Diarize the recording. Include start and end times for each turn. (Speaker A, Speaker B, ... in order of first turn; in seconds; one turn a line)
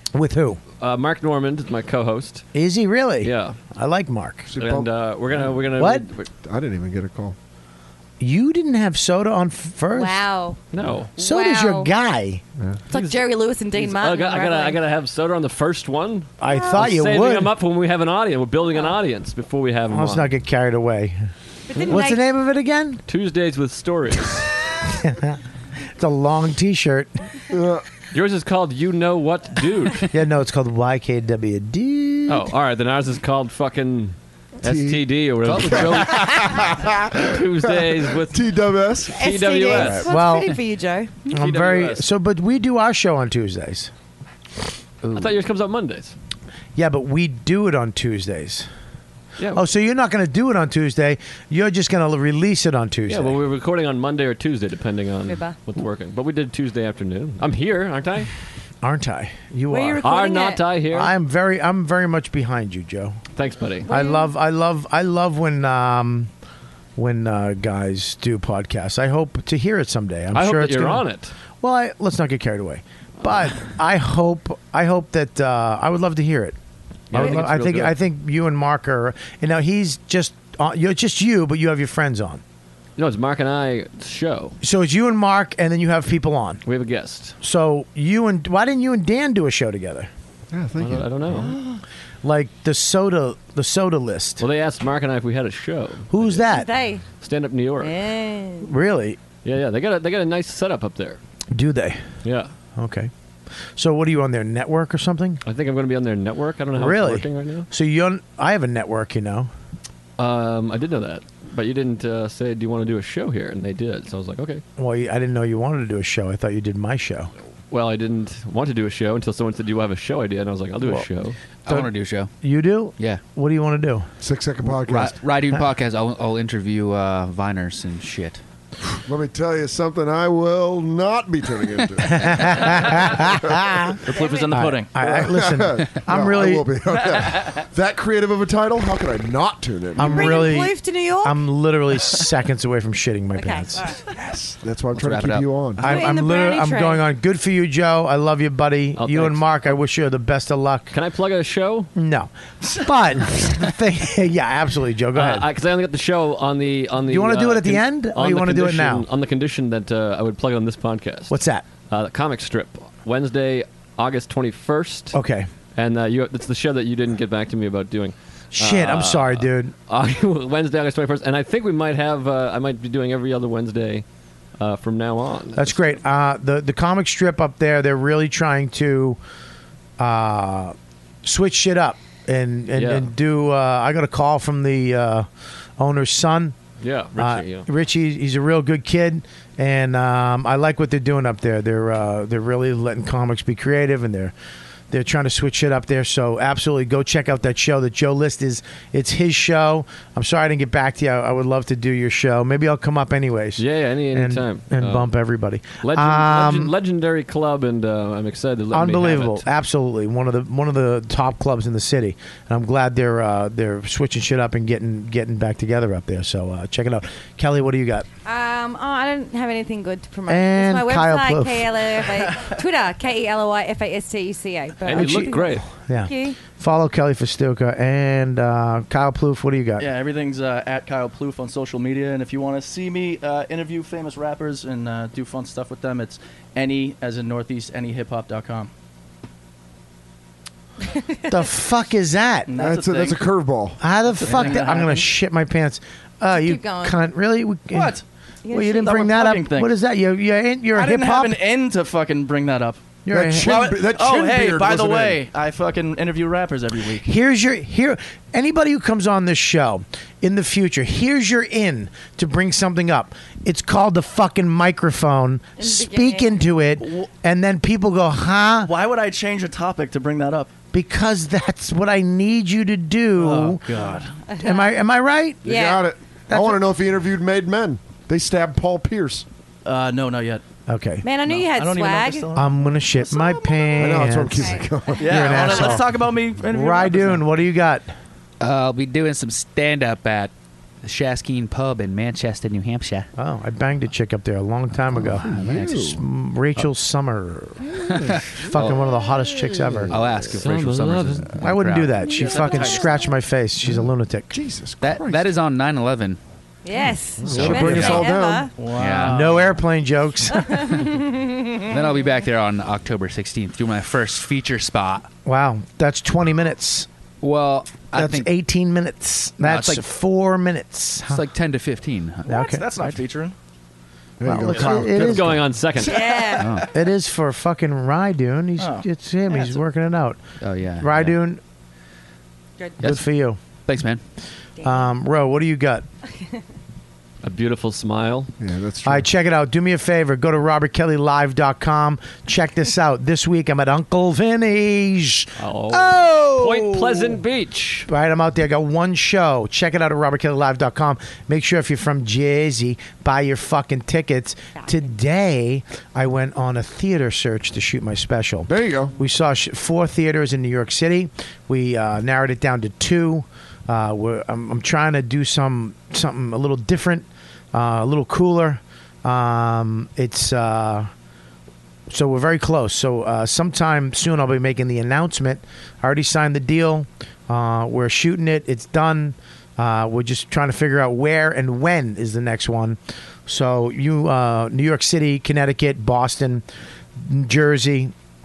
Speaker A: 0.1-0.6
Speaker B: 0.8-2.5
Speaker A: 2.5-4.5
Speaker B: 3.2-3.6
Speaker C: 4.5-5.5
Speaker B: 4.6-6.3
Speaker A: 5.8-6.1
Speaker C: 6.4-7.3
Speaker A: 8.2-10.3
Speaker D: 9.9-10.6
Speaker B: 10.7-11.1
Speaker D: 11.2-11.9
Speaker A: 11.2-12.4
Speaker D: 12.9-14.8
Speaker B: 12.9-20.3
Speaker A: 16.4-17.5
Speaker A: 19.9-21.2
Speaker D: 21.7-22.2
Speaker B: 21.7-22.0
Speaker A: 21.9-23.0
Speaker B: 23.1-24.5
Speaker A: 24.9-25.4
Speaker A: 26.0-27.2
Speaker C: 27.5-27.8
Speaker B: 28.1-30.1
Speaker A: 30.1-32.5
Speaker B: 32.3-36.3
Speaker C: 34.6-39.2
Speaker E: 35.4-36.3
Speaker B: 37.2-38.4
Speaker B: 39.1-40.1
Speaker D: 39.2-41.1
Speaker A: 39.7-40.5
Speaker B: 41.3-42.0
Speaker A: 41.3-43.9
Speaker E: 45.0-45.4
Speaker B: 45.1-46.1
Speaker A: 46.8-48.7
Speaker B: 49.4-49.6
Speaker A: 49.5-53.4
Speaker B: 53.1-58.3
Speaker D: 55.2-55.5
Speaker A: 58.8-60.0
Speaker D: 59.7-60.6
Speaker B: 60.0-61.1
Speaker A: 60.9-63.2
Speaker B: 63.3-63.9
Speaker A: 63.9-66.3
Speaker D: 63.9-64.3
Speaker A: 67.0-71.0
Speaker B: 70.3-71.3
Speaker A: 71.6-76.6
Speaker B: 77.1-77.9
Speaker A: 77.1-82.4
Speaker B: 83.0-84.6
Speaker A: 84.6-86.6
Speaker B: 86.6-87.3
Speaker A: 87.4-90.1
Speaker C: 90.5-91.8
Speaker B: 90.8-91.5
Speaker A: 92.2-94.4
Speaker B: 94.4-96.5
Speaker A: 96.1-96.7
Speaker D: 96.5-97.0
Speaker B: 97.2-97.9
Speaker D: 97.8-98.7
Speaker A: 98.6-99.2
Speaker B: 99.4-101.2
Speaker A: 101.5-102.0
Speaker B: 102.2-102.5
Speaker A: 102.8-103.1
Speaker A: 103.8-105.4
Speaker B: 105.4-107.7
Speaker A: 106.8-109.5
Speaker B: 110.2-114.6
Speaker A: 114.8-117.3
Speaker B: 117.7-121.3
Speaker E: 121.7-122.3
Speaker A: 121.7-124.1
Speaker C: 124.2-125.2
Speaker E: 124.8-128.4
Speaker C: 129.0-133.6
Speaker A: 132.1-134.0
Speaker F: 134.1-134.9
Speaker D: 134.2-134.5
Speaker A: 134.5-136.7
Speaker C: 135.0-140.5
Speaker A: 139.9-143.8
Speaker D: 140.0-141.4
Speaker D: 143.3-144.0
Speaker C: 144.1-146.0
Speaker E: 144.9-145.5
Speaker A: 145.8-150.9
Speaker D: 145.8-147.0
Speaker B: 149.0-149.7
Speaker B: 150.9-151.9
Speaker A: 151.9-155.4
Speaker B: 155.1-161.3
Speaker A: 157.1-159.1
Speaker A: 161.3-161.6
Speaker B: 161.9-165.1
Speaker A: 165.1-165.5
Speaker B: 165.7-174.0
Speaker A: 168.5-169.7
Speaker B: 174.6-175.9
Speaker A: 175.5-179.2
Speaker A: 180.0-185.3
Speaker B: 182.7-183.1
Speaker A: 185.8-186.6
Speaker B: 186.8-187.7
Speaker A: 187.2-194.3
Speaker A: 194.9-206.7
Speaker B: 203.6-205.1
Speaker B: 205.8-209.4
Speaker A: 208.7-218.1
Speaker D: 218.2-225.5
Speaker A: 220.3-221.7
Speaker B: 224.8-225.7
Speaker A: 224.9-229.9
Speaker D: 226.0-226.4
Speaker F: 229.8-238.7
Speaker A: 241.3-242.5
Speaker F: 242.5-243.3
Speaker C: 242.5-243.8
Speaker A: 243.8-247.9
Speaker F: 244.1-245.1
Speaker D: 246.3-247.0
Speaker F: 247.7-248.0
Speaker D: 248.4-249.0
Speaker A: 248.5-251.4
Speaker F: 248.8-249.7
Speaker F: 250.7-252.8
Speaker A: 253.0-253.5
Speaker C: 253.1-255.2
Speaker F: 253.3-257.1
Speaker A: 257.0-268.7
Speaker D: 265.6-266.4
Speaker F: 266.8-267.1
Speaker F: 268.6-270.5
Speaker A: 270.7-273.6
Speaker F: 273.1-274.1
Speaker D: 274.3-274.6
Speaker A: 274.4-275.4
Speaker D: 275.4-275.9
Speaker C: 275.4-279.2
Speaker A: 276.3-276.6
Speaker F: 279.6-280.4
Speaker A: 280.7-281.0
Speaker D: 281.0-282.3
Speaker F: 281.2-283.4
Speaker A: 282.3-285.9
Speaker D: 283.2-285.2
Speaker C: 283.8-285.8
Speaker F: 285.0-287.3
Speaker A: 286.4-287.9
Speaker E: 288.4-290.3
Speaker E: 290.8-293.1
Speaker A: 293.2-297.7
Speaker E: 295.1-295.9
Speaker C: 295.2-296.0
Speaker C: 297.7-298.7
Speaker E: 297.9-298.9
Speaker A: 298.4-299.9
Speaker C: 299.5-300.3
Speaker E: 299.9-302.5
Speaker B: 300.3-301.4
Speaker A: 301.4-304.3
Speaker F: 302.1-303.1
Speaker C: 303.7-305.3
Speaker E: 304.8-306.2
Speaker D: 306.6-308.6
Speaker C: 307.2-308.5
Speaker E: 307.3-308.1
Speaker A: 307.3-308.0
Speaker F: 308.6-309.6
Speaker E: 308.8-309.3
Speaker A: 309.0-310.5
Speaker D: 310.3-311.6
Speaker E: 311.7-315.1
Speaker A: 315.2-316.9
Speaker E: 317.2-318.3
Speaker A: 317.9-321.2
Speaker E: 319.4-319.8
Speaker E: 321.0-322.9
Speaker A: 322.2-322.6
Speaker F: 322.3-323.3
Speaker C: 324.2-325.2
Speaker A: 324.2-325.4
Speaker B: 324.9-326.2
Speaker D: 325.8-326.6
Speaker E: 326.4-326.7
Speaker A: 326.7-330.2
Speaker F: 328.6-329.5
Speaker E: 330.4-331.2
Speaker A: 330.8-331.4
Speaker E: 332.8-333.0
Speaker A: 332.8-333.4
Speaker E: 333.6-334.0
Speaker D: 334.6-334.9
Speaker A: 334.6-335.8
Speaker B: 337.2-338.3
Speaker C: 338.4-339.1
Speaker A: 338.8-347.2
Speaker B: 345.4-347.9
Speaker A: 347.9-370.9
Speaker C: 358.5-358.9
Speaker A: 371.9-386.4
Speaker A: 387.0-387.9